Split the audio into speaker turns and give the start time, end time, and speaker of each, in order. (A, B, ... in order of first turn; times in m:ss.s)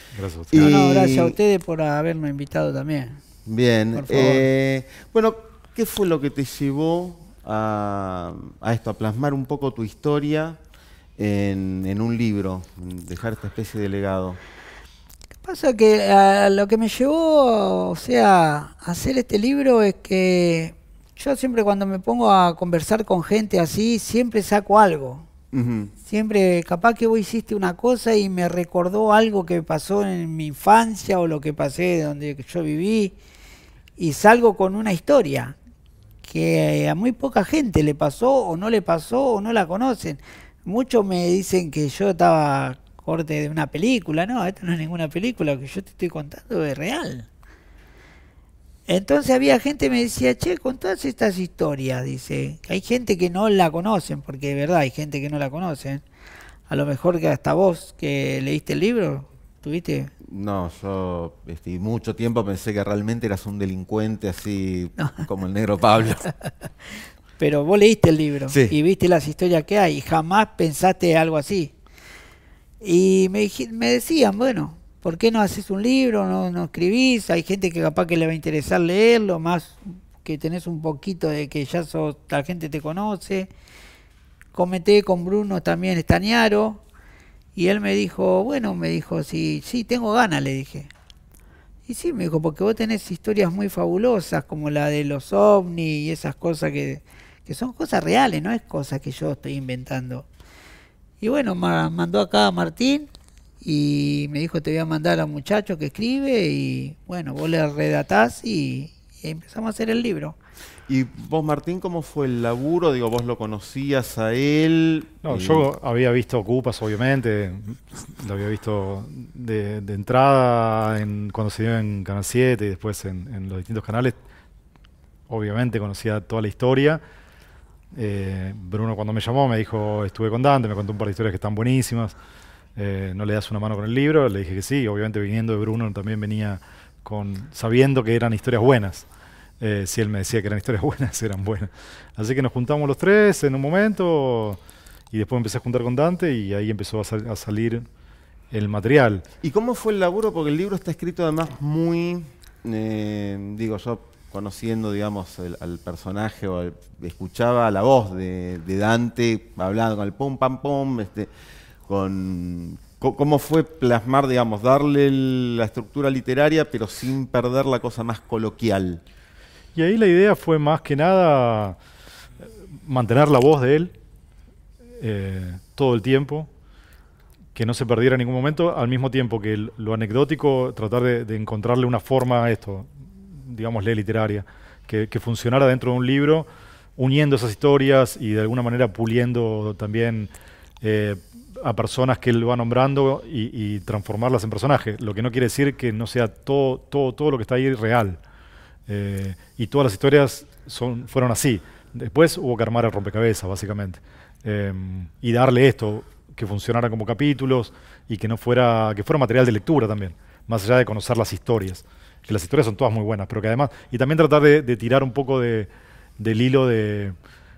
0:00.1-0:00.7 A
0:00.5-0:01.4 B
0:00.6-0:03.2 C
0:03.4-0:10.6 B
0:03.9-0:04.5 C
0:11.2-0:14.4 B
0:15.4-0:25.3 C
0:25.5-0:25.9 B
0:26.0-0:33.1 C
0:34.0-0:35.5 C
0:36.2-0:47.3 C
0:48.9-0:56.0 C
0:56.7-1:00.1 C
1:00.2-1:06.3 B
1:05.0-1:05.2 C
1:07.4-1:11.7 C
1:08.5-1:08.8 B
1:12.8-1:23.5 C
1:24.5-1:26.8 C
1:27.5-1:30.9 C
1:31.9-1:40.3 C
1:41.2-1:43.1 C
1:43.6-1:50.4 C
1:50.9-1:55.6 B
1:55.2-2:04.2 A
2:05.3-2:07.0 A
2:07.9-2:12.2 A
2:12.8-2:19.1 A
2:19.6-2:24.6 A
2:25.1-2:27.9 A
2:28.5-2:29.2 A
2:29.4-2:41.3 B
2:41.9-2:49.0 B
2:49.7-2:51.8 A
2:52.8-2:53.9 A
2:55.0-2:56.5 A
2:57.5-3:10.3 A
3:10.8-3:18.2 A
3:18.9-3:37.2 A